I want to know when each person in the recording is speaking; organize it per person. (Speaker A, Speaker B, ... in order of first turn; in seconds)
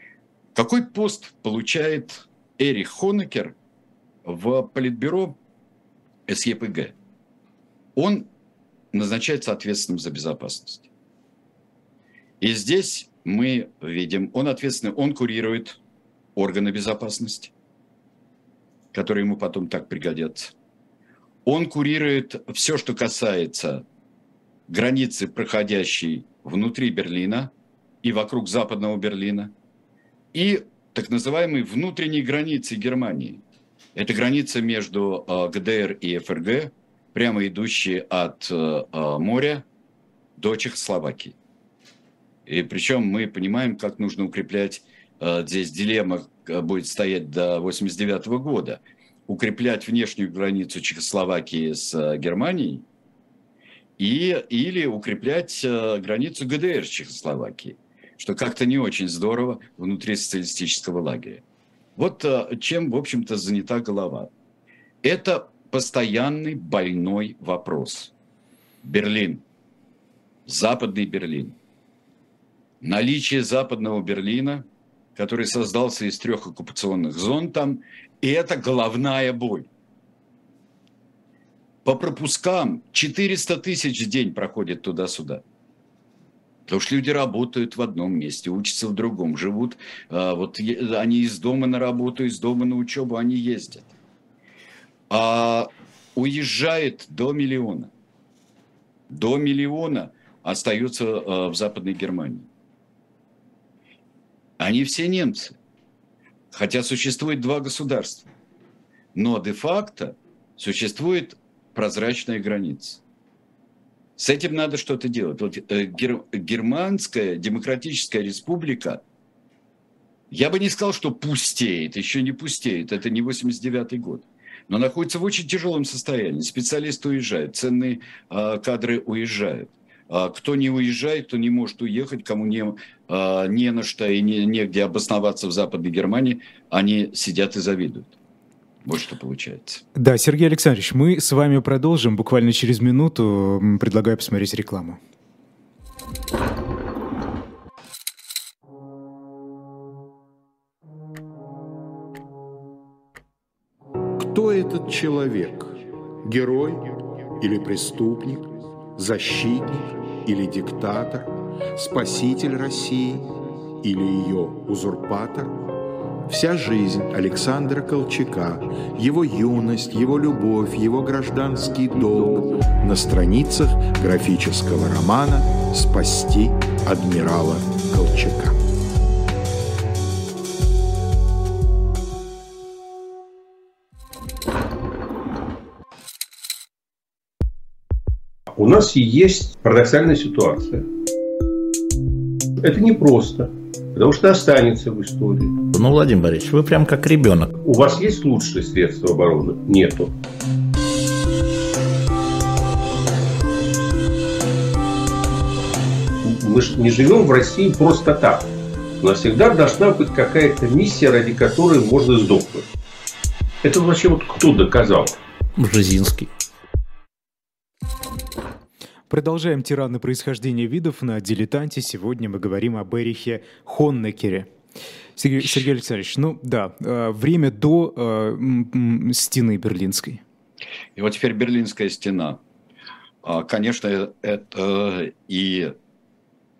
Speaker A: 0.5-3.5, 4.2-5.4, 6.3-6.9, 7.9-8.3, 8.9-10.9, 12.4-15.8, 16.3-17.5, 18.9-20.5, 21.4-23.8, 24.7-27.5, 28.0-29.5, 30.3-33.4, 33.9-39.6, 40.4-41.4, 42.5-52.8, 54.0-61.4, 62.0-64.3, 65.0-68.1, 68.8-69.4, 70.5-71.5, 72.8-79.7, 81.8-85.4, 86.7-93.9, 95.1-97.9, 99.1-102.5, 104.6-105.5, 106.5-108.3, 109.1-113.0, 114.2-119.0, 120.3-138.1, 138.8-139.8, 230.9-232.4, 233.2-235.7
Speaker B: 139.9-145.0, 219.1-224.5, 225.2-230.2
Speaker C: 154.2-165.6, 166.3-178.6
Speaker D: 188.5-190.8, 192.6-195.6, 197.6-200.1, 206.2-208.5, 209.0-212.7, 213.6-215.2
Speaker E: 195.7-197.5, 215.6-216.3